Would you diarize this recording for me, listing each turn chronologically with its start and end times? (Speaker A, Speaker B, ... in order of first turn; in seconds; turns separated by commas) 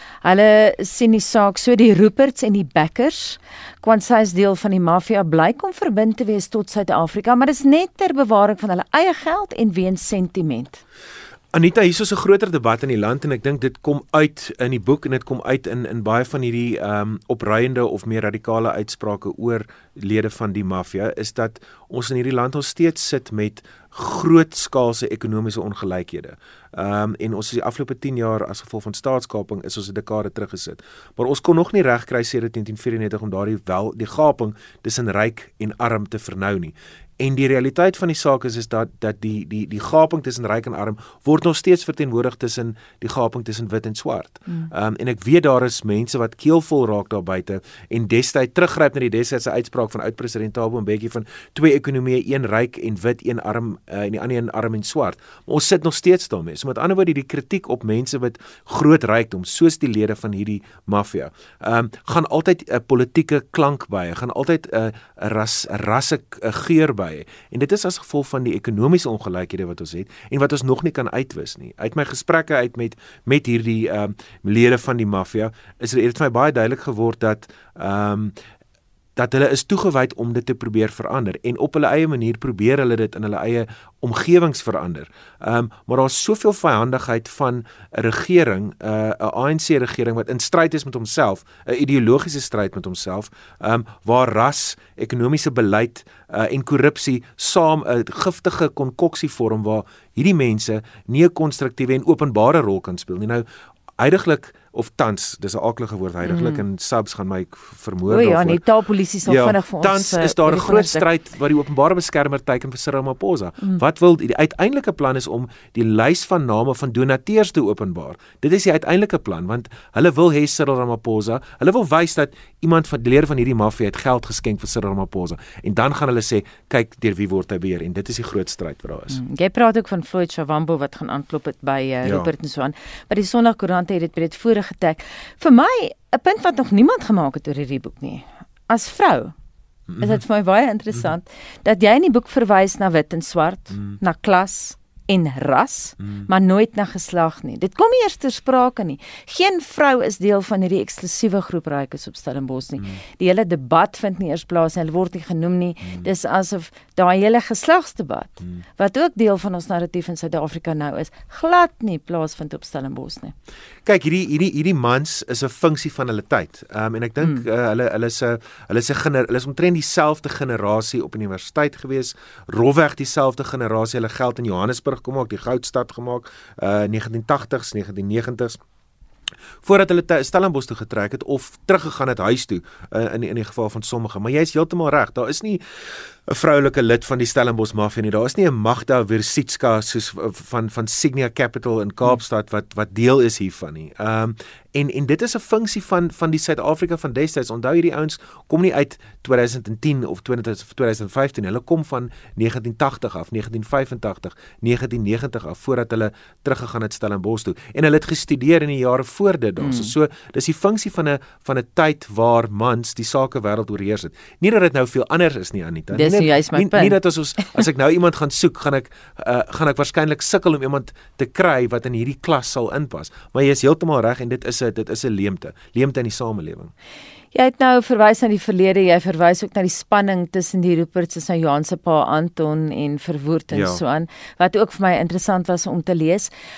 Speaker A: 0.2-10.8, Speaker B: 11.5-78.3, Speaker B: 79.2-103.4, Speaker B: 104.0-108.6, Speaker A: 106.2-106.6, Speaker A: 108.1-111.1, Speaker B: 109.2-129.2, Speaker A: 129.1-139.3, Speaker B: 132.0-132.3, Speaker B: 139.9-140.2, Speaker A: 140.0-163.3, Speaker B: 163.8-178.6, Speaker B: 179.6-185.6, Speaker B: 186.3-226.7, Speaker A: 209.6-209.9, Speaker A: 215.9-217.5, Speaker A: 227.3-236.3, Speaker B: 233.5-233.8